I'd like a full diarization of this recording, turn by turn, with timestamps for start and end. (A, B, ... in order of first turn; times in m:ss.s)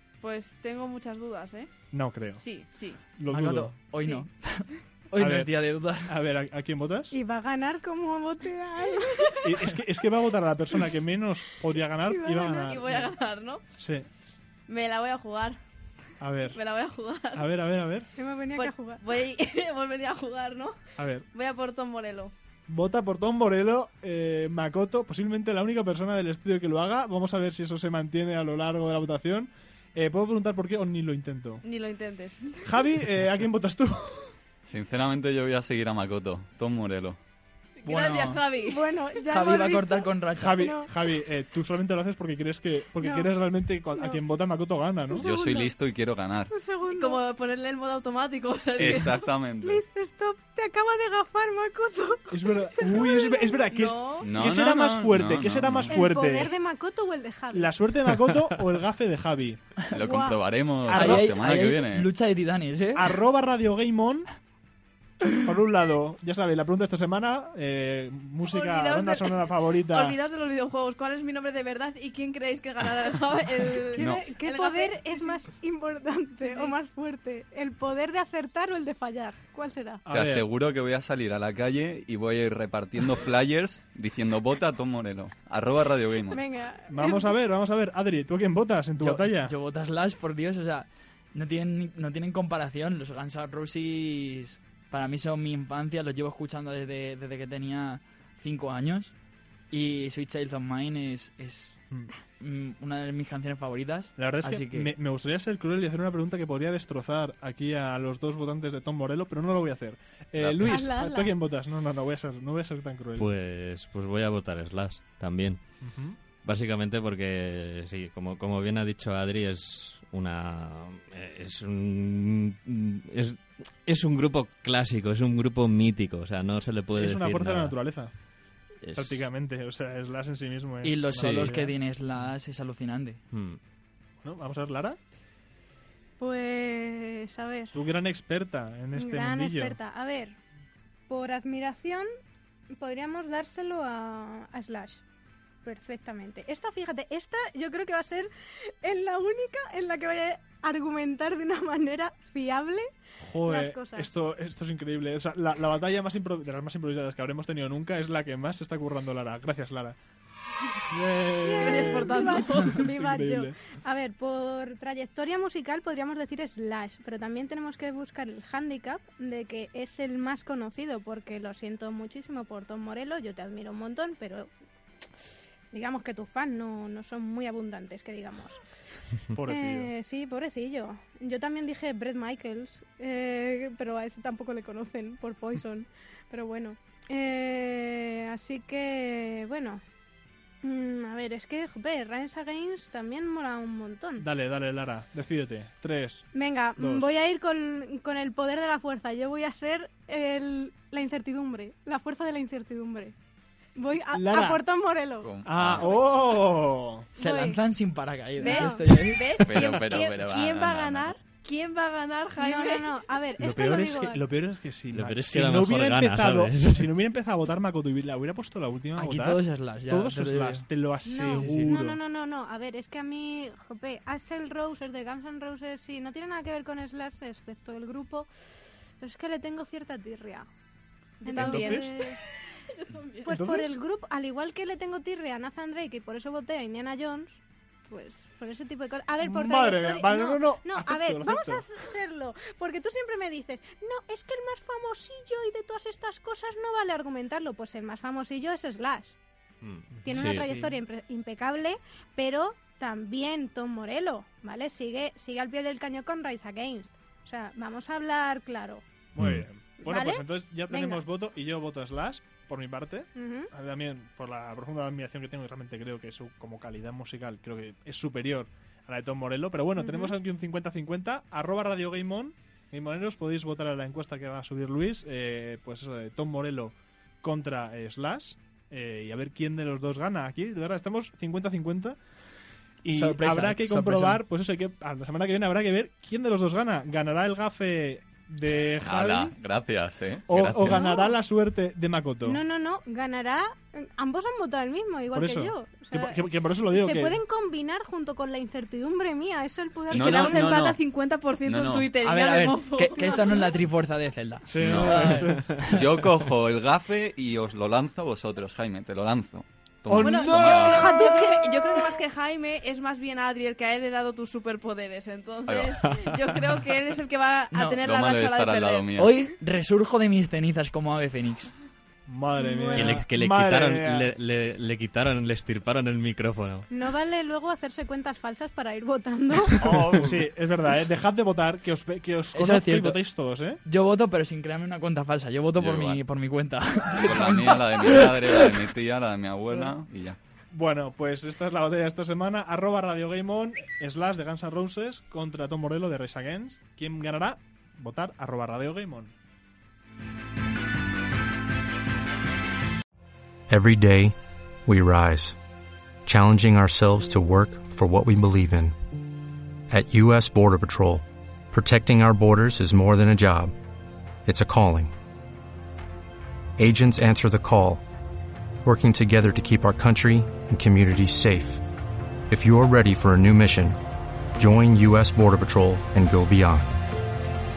0:00.2-0:01.7 A
0:01.9-0:02.4 B
0:02.4-0:03.0 A
0:03.2-0:03.8 B
0:03.3-0:06.1 C
0:05.2-0:07.2 B
0:07.1-0:09.7 D
0:09.4-0:13.1 B
0:12.1-0:12.8 D
0:12.8-0:13.6 A
0:13.8-0:14.1 B
0:14.7-0:15.6 A
0:16.2-0:16.6 B
0:16.6-0:17.5 A
0:17.4-0:18.1 B
0:18.2-0:19.0 D
0:18.6-0:20.8 A
0:21.0-0:21.2 B
0:21.4-0:22.3 A
0:22.7-0:31.6 B
0:31.9-0:32.4 A
0:32.7-0:34.3 B
0:34.7-0:37.2 E
0:37.8-0:38.5 C
0:37.9-0:38.6 A
0:38.5-0:40.9 D
0:39.2-0:40.7 C
0:40.4-0:45.3 B
0:43.0-0:43.3 D
0:44.0-0:44.2 D
0:45.1-0:45.8 D
0:45.2-0:46.5 E
0:46.5-0:47.2 D
0:47.1-0:49.1 A
0:48.8-0:49.8 E
0:49.6-0:53.8 D
0:52.3-0:56.5 B
0:54.2-0:56.0 E
0:55.9-0:57.8 D
0:57.5-0:59.6 B
0:59.9-1:02.1 E
1:00.0-1:00.4 D
1:00.8-1:01.4 B
1:00.9-1:03.1 C
1:03.0-1:04.3 B
1:05.4-1:10.2 B
1:08.6-1:09.2 A
1:10.0-1:13.8 A
1:14.0-1:20.0 D
1:14.0-1:14.3 E
1:14.5-1:14.9 A
1:20.1-1:20.4 B
1:20.1-1:26.5 E
1:26.3-1:27.4 D
1:26.9-1:29.5 B
1:29.0-1:39.1 C
1:39.7-1:41.8 C
1:42.4-1:44.9 C
1:44.2-1:53.3 B
1:50.4-1:50.8 F
1:50.6-1:51.4 D
1:53.2-1:55.6 F
1:55.8-1:56.2 B
1:56.4-2:07.8 F
2:07.0-2:08.1 B
2:08.8-2:09.3 F
2:08.9-2:11.8 B
2:10.8-2:13.2 C
2:11.1-2:11.5 F
2:13.3-2:13.6 F
2:14.2-2:15.0 B
2:16.2-2:17.7 D
2:17.7-2:19.8 B
2:19.0-2:20.4 D
2:21.1-2:22.1 D
2:22.8-2:25.0 D
2:25.6-2:28.3 D
2:28.8-2:32.9 D
2:33.2-2:40.0 B
2:33.4-2:34.1 D
2:40.9-2:43.6 B
2:41.4-2:54.5 D
2:41.7-2:42.6 A
2:55.7-2:58.6 D
2:59.3-2:59.9 B
2:59.5-3:09.8 D
3:10.6-3:14.3 D
3:14.2-3:17.1 B
3:16.3-3:23.2 D
3:23.8-3:25.4 D
3:24.1-3:24.7 B
3:25.2-3:26.0 E
3:25.4-3:27.1 B
3:27.2-3:27.6 D
3:27.2-3:29.4 C
3:28.4-3:28.9 D
3:28.9-3:30.3 A
3:29.4-3:31.2 E
3:31.4-3:32.8 A
3:32.4-3:34.2 D
3:33.4-3:42.0 B
3:34.9-3:36.9 F
3:39.0-3:41.8 C
3:41.0-3:48.3 D
3:49.0-3:50.5 D
3:51.2-3:52.2 D
3:51.4-3:51.9 B
3:51.5-3:51.8 A
3:52.8-3:53.3 A
3:53.2-3:57.4 D
3:53.3-3:53.7 B
3:57.9-4:09.2 D
3:59.2-4:01.6 B
4:09.6-4:10.8 F
4:10.0-4:18.8 D
4:19.2-4:42.0 B
4:19.2-4:19.5 F
4:19.8-4:21.0 D
4:23.2-4:23.5 D
4:29.8-4:30.2 D
4:42.8-4:49.4 B
4:42.9-4:44.2 C
4:48.8-4:50.9 E
4:50.3-4:52.4 B
4:50.7-4:51.2 D
4:52.2-5:00.6 D
4:55.1-4:57.2 B
4:59.9-5:00.8 E
5:00.6-5:01.3 A
5:01.4-5:01.9 E
5:02.0-5:05.6 C
5:02.1-5:02.8 A
5:02.8-5:03.6 D
5:04.5-5:05.6 B
5:04.6-5:10.3 E
5:09.9-5:11.0 B
5:10.0-5:11.4 A
5:10.8-5:12.0 D
5:12.3-5:13.3 A
5:14.2-5:14.8 A
5:15.5-5:15.8 E
5:16.7-5:17.8 A
5:17.5-5:17.8 C
5:17.8-5:19.1 E
5:19.0-5:21.5 C
5:22.1-5:24.1 B
5:22.4-5:23.0 D
5:22.7-5:26.7 F
5:26.7-5:30.0 D
5:29.8-5:33.6 B
5:32.3-5:38.4 C
5:35.6-5:36.0 E
5:37.0-5:40.2 E
5:40.5-5:49.1 B
5:53.5-5:55.4 G
5:56.0-5:58.8 G
5:59.7-6:03.6 G
6:04.2-6:04.9 G
6:06.6-6:07.8 G
6:08.6-6:11.6 G
6:12.3-6:13.8 G
6:14.4-6:16.8 G